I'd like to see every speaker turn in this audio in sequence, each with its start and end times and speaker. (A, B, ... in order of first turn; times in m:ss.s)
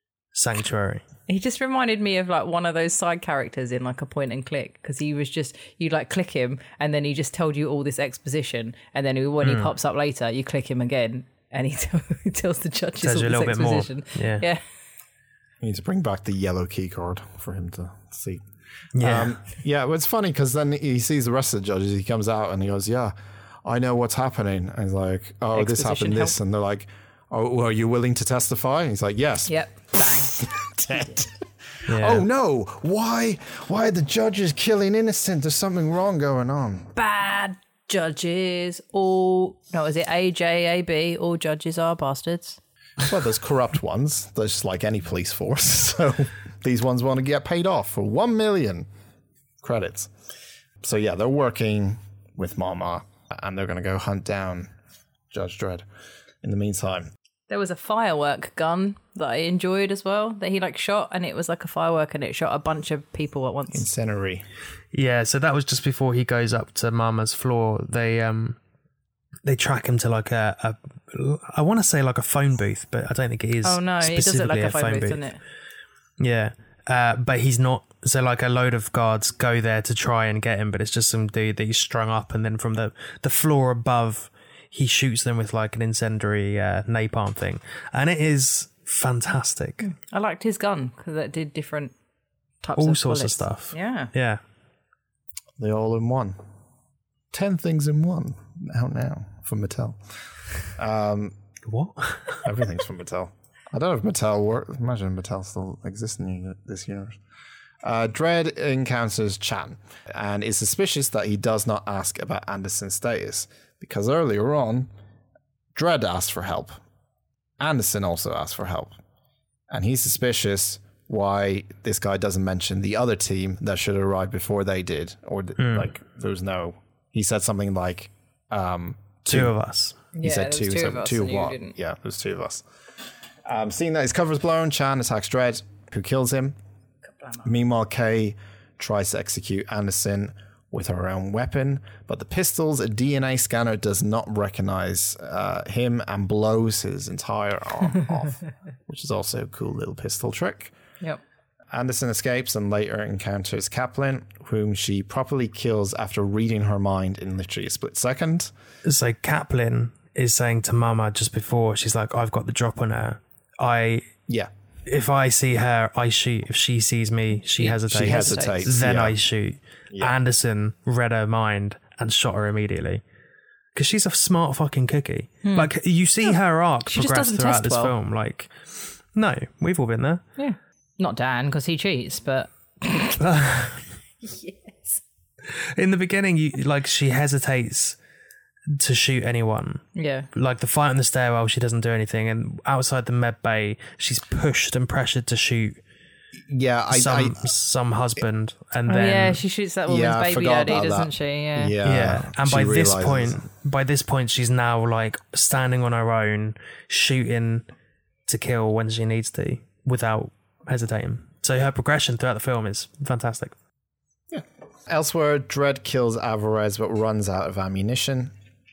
0:00.3-0:01.0 A
0:01.3-0:14.6 B
0:09.4-0:09.7 A
0:13.0-0:14.5 A
0:15.6-0:18.4 C
0:19.0-0:19.4 A
0:19.0-0:36.9 C
0:25.5-0:26.4 B
0:29.5-0:30.4 B
0:31.9-0:32.2 A
0:37.0-0:42.6 B
0:43.0-0:48.9 C
0:49.6-0:50.1 C
0:50.8-0:54.7 C
0:55.3-0:55.8 C
0:56.4-0:57.1 C
0:57.5-1:03.9 B
1:03.7-1:04.4 C
1:04.9-1:08.6 A
1:09.4-1:15.2 A
1:13.6-1:15.4 B
1:16.2-1:29.9 A
1:29.8-1:31.9 B
1:32.6-1:34.1 B
1:32.8-1:34.4 A
1:35.6-1:36.4 C
1:37.3-1:40.0 C
1:40.7-1:41.3 C
1:41.7-1:42.5 A
1:42.4-1:47.2 C
1:47.8-1:54.9 C
1:55.7-1:56.8 C
1:57.6-1:59.0 C
1:59.7-2:09.5 C
2:05.6-2:05.9 A
2:09.3-2:10.0 A
2:10.1-2:11.7 B
2:10.2-2:12.6 C
2:13.4-2:16.6 C
2:17.4-2:30.7 C
2:31.7-2:38.5 C
2:38.8-2:44.1 A
2:44.9-2:53.0 A
2:47.6-2:48.7 B
2:47.9-2:49.2 C
2:49.9-2:50.2 C
2:53.7-3:00.2 A
2:55.4-2:55.7 B
2:56.9-2:57.9 B
3:00.4-3:03.2 B
3:03.2-3:03.8 A
3:04.2-3:05.0 B
3:05.5-3:08.0 A
3:08.7-3:15.8 A
3:10.0-3:10.3 B
3:16.5-3:17.4 C
3:16.9-3:19.4 A
3:18.9-3:21.7 B
3:19.9-3:23.4 C
3:21.8-3:27.7 A
3:28.3-3:33.5 A
3:34.3-3:38.3 C